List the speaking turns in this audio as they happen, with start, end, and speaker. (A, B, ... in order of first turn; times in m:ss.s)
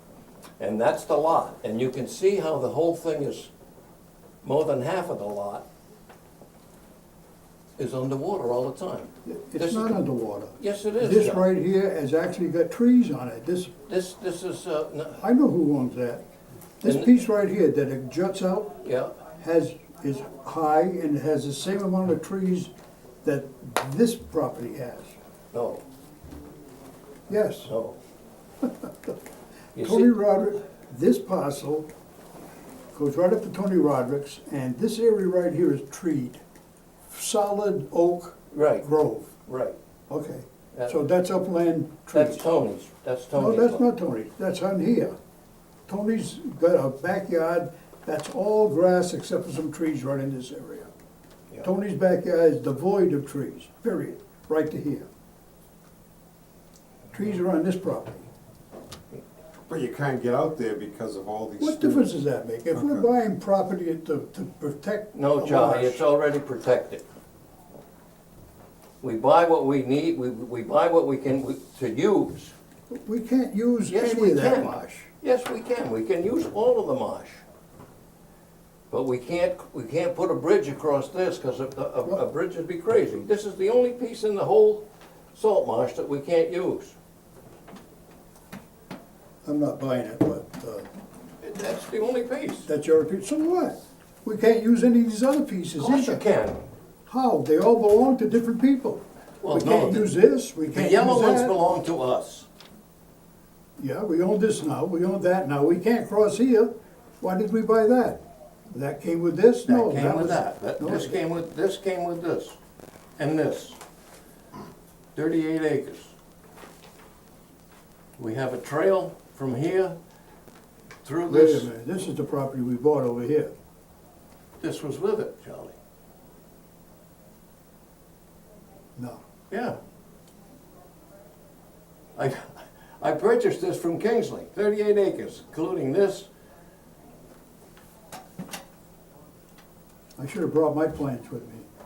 0:00.6-0:03.5 A
0:04.4-0:05.6 A
0:07.8-0:09.9 A
0:09.2-0:13.7 B
0:10.6-0:11.4 A
0:13.9-0:15.2 A
0:15.2-0:16.2 B
0:16.8-0:18.8 B
0:18.8-0:19.2 A
0:19.4-0:22.7 B
0:23.2-0:25.1 B
0:25.5-0:25.8 A
0:27.3-0:27.7 B
0:27.7-0:28.0 A
0:28.6-0:29.1 B
0:29.7-0:30.1 A
0:29.8-0:31.9 B
0:32.9-0:36.4 B
0:37.1-0:39.3 B
0:38.5-0:38.8 A
0:39.4-0:39.8 A
0:40.1-0:42.5 B
0:42.1-0:43.8 A
0:43.3-0:45.1 B
0:45.9-0:50.9 B
0:51.6-0:55.1 B
0:57.1-0:58.2 B
0:59.7-1:02.1 C
1:01.6-1:06.0 B
1:05.1-1:07.0 A
1:09.0-1:12.5 A
1:12.9-1:15.1 B
1:13.9-1:17.4 A
1:18.9-1:27.0 A
1:29.4-1:30.9 B
1:31.4-1:32.7 A
1:32.6-1:36.2 B
1:35.8-1:36.6 A
1:37.1-1:41.6 B
1:39.4-1:40.1 A
1:40.7-1:42.5 A
1:43.8-1:51.2 B
1:49.7-1:52.6 A
1:53.2-1:53.8 A
1:55.1-1:56.1 A
1:58.2-2:00.0 A
2:01.0-2:01.7 A
2:01.3-2:03.5 B
2:04.6-2:05.8 A
2:09.5-2:09.8 A
2:12.2-2:16.3 A
2:20.2-2:21.7 B